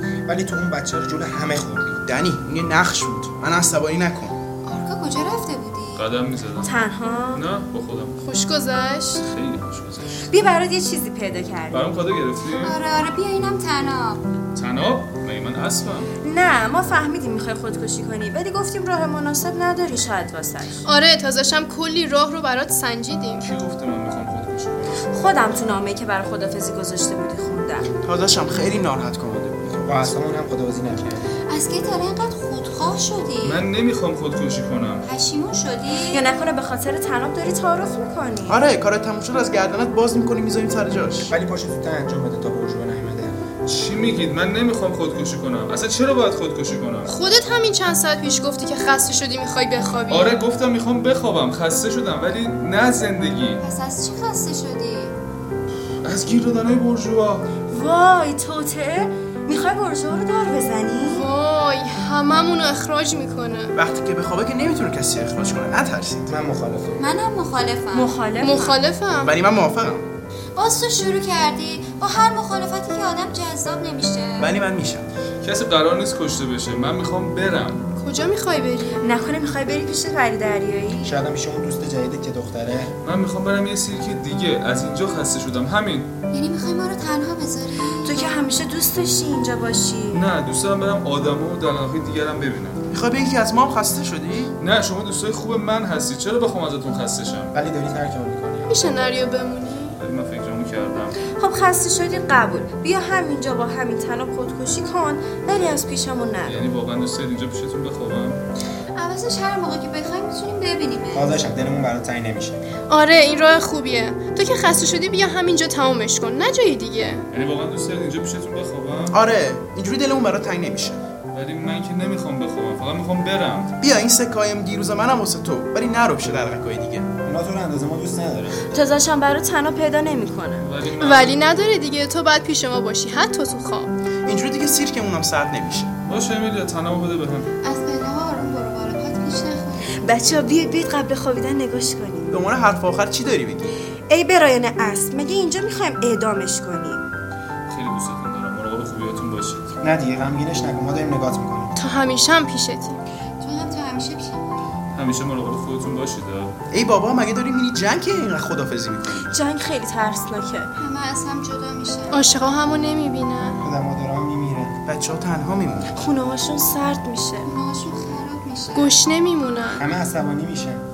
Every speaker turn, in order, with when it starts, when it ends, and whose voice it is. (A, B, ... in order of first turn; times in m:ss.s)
0:00.3-0:02.0 A
0:02.0-0:04.4 B
0:04.6-0:06.0 C
0:06.0-0:06.8 D
0:06.6-0:07.4 E
0:07.3-0:08.2 D
0:08.2-0:09.2 F
0:09.2-0:10.3 D
0:10.3-0:11.8 E
0:11.7-0:12.8 D
0:12.5-0:14.3 C
0:14.5-0:16.1 D
0:16.2-0:20.8 E
0:20.8-0:23.4 F
0:23.4-0:25.0 D
0:25.1-0:27.9 E
0:28.0-0:30.1 B
0:29.9-0:31.3 A
0:31.5-0:33.6 C
0:33.4-0:35.0 D
0:35.0-0:36.3 C
0:36.1-0:38.6 E
0:38.5-0:41.3 B
0:41.3-0:43.3 A
0:43.6-0:47.1 D
0:47.0-0:50.3 F
0:50.1-0:53.6 D
0:53.6-0:55.2 C
0:56.0-0:57.5 D
0:57.7-1:01.3 E
1:01.0-1:03.7 F
1:03.8-1:06.3 B
1:06.3-1:07.1 A
1:07.0-1:08.8 C
1:07.9-1:08.6 E
1:08.4-1:09.4 F
1:09.2-1:10.0 B
1:10.5-1:14.6 C
1:14.4-1:15.1 B
1:15.4-1:17.8 D
1:18.0-1:19.1 F
1:19.0-1:21.2 E
1:21.0-1:22.9 A
1:23.0-1:26.1 D
1:26.3-1:28.3 C
1:28.0-1:30.2 E
1:30.1-1:32.8 D
1:32.9-1:34.5 B
1:34.6-1:37.5 D
1:37.5-1:38.8 A
1:38.7-1:40.0 F
1:40.0-1:41.2 D
1:41.4-1:46.6 E
1:46.4-1:48.4 D
1:48.9-1:51.3 C
1:51.1-1:52.6 A
1:52.9-1:57.2 F
1:57.3-1:59.2 D
1:59.1-2:01.0 B
2:01.3-2:03.7 D
2:03.8-2:07.1 B
2:07.2-2:08.7 A
2:08.7-2:10.7 E
2:10.6-2:11.4 D
2:11.0-2:13.9 F
2:14.2-2:15.9 B
2:16.0-2:17.5 D
2:17.6-2:20.0 C
2:19.9-2:22.4 E
2:22.3-2:23.8 B
2:24.1-2:27.0 E
2:27.7-2:29.7 D
2:29.8-2:31.7 A
2:31.8-2:33.0 F
2:33.4-2:34.7 C
2:34.9-2:36.5 D
2:36.7-2:39.4 B
2:39.2-2:40.7 E
2:40.8-2:42.4 C
2:42.1-2:43.6 F
2:43.6-2:44.8 A
2:44.8-2:45.9 B
2:45.9-2:47.5 E
2:47.4-2:49.0 C
2:48.8-2:49.8 F
2:49.8-2:50.8 A